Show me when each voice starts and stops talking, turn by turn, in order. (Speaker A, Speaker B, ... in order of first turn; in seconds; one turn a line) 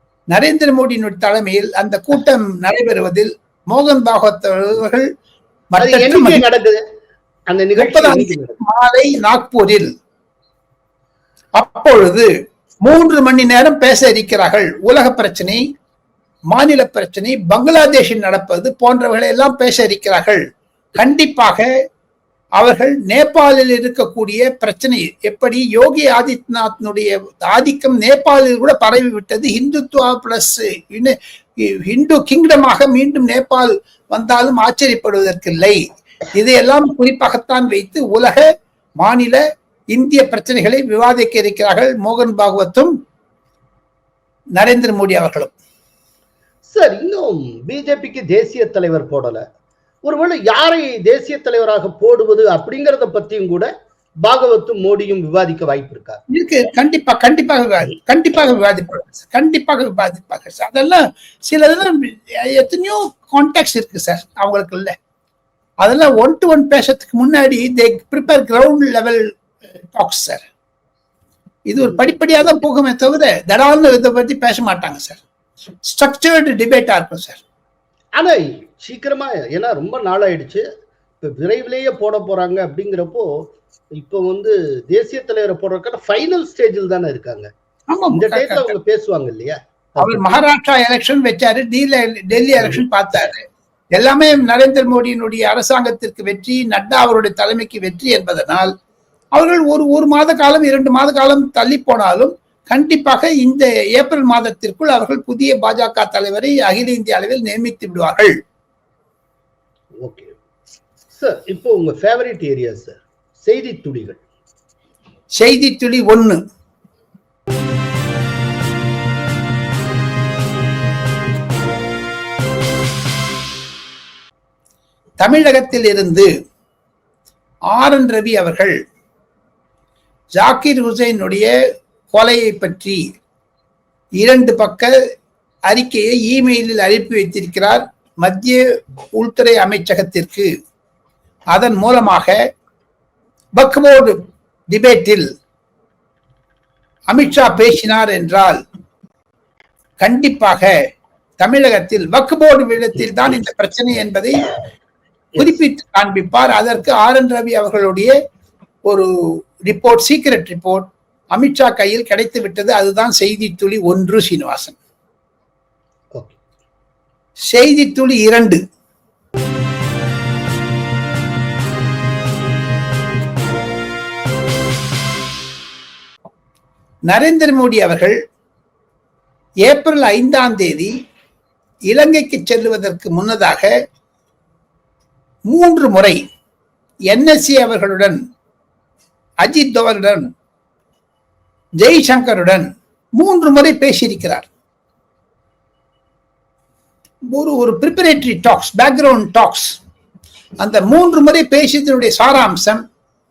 Speaker A: 0.3-5.1
Speaker A: 5.7-6.4
Speaker B: 5.8-6.8
Speaker B: 7.5-8.6
Speaker A: 7.8-9.9
Speaker A: 11.6-12.3
Speaker A: 12.8-15.6
Speaker A: 16.5-20.4
Speaker A: 20.9-21.7
Speaker A: 22.6-35.8
Speaker A: 36.3-38.5
Speaker A: 39.0-39.4
Speaker A: 39.9-42.9
Speaker A: 44.5-45.5
Speaker B: 46.7-49.4
Speaker B: 50.0-53.7
Speaker B: 54.2-56.2
Speaker A: 56.3-64.9
Speaker A: 65.8-69.2
Speaker A: 69.8-70.4
Speaker A: 71.7-75.2
Speaker A: 75.9-77.4
Speaker B: 78.2-80.6
Speaker B: 81.2-83.4
Speaker B: 84.0-87.5
Speaker A: 87.9-88.7
Speaker B: 88.1-90.3
Speaker A: 90.0-98.7
Speaker A: 99.3-108.4
Speaker B: 110.0-110.3
Speaker B: 111.1-114.2
Speaker A: 115.4-116.4
Speaker A: 125.2-126.3
Speaker A: 127.7-128.8
Speaker A: 130.3-131.5
Speaker A: 132.1-133.0
Speaker A: 134.2-134.9
Speaker A: 135.7-138.6
Speaker A: 139.1-140.5
Speaker A: 141.5-142.4
Speaker A: 143.6-145.3
Speaker A: 147.1-148.6
Speaker A: 150.0-150.7
Speaker A: 151.4-154.5
Speaker A: 155.3-158.1
Speaker A: 159.6-164.8
Speaker A: 167.5-168.6
Speaker A: 177.1-178.2
Speaker A: 179.6-180.9
Speaker A: 181.9-183.7
Speaker A: 185.5-186.2
Speaker A: 187.1-188.2
Speaker A: 189.4-190.3
Speaker A: 191.8-194.5
Speaker A: 197.3-199.8
Speaker A: 200.6-202.8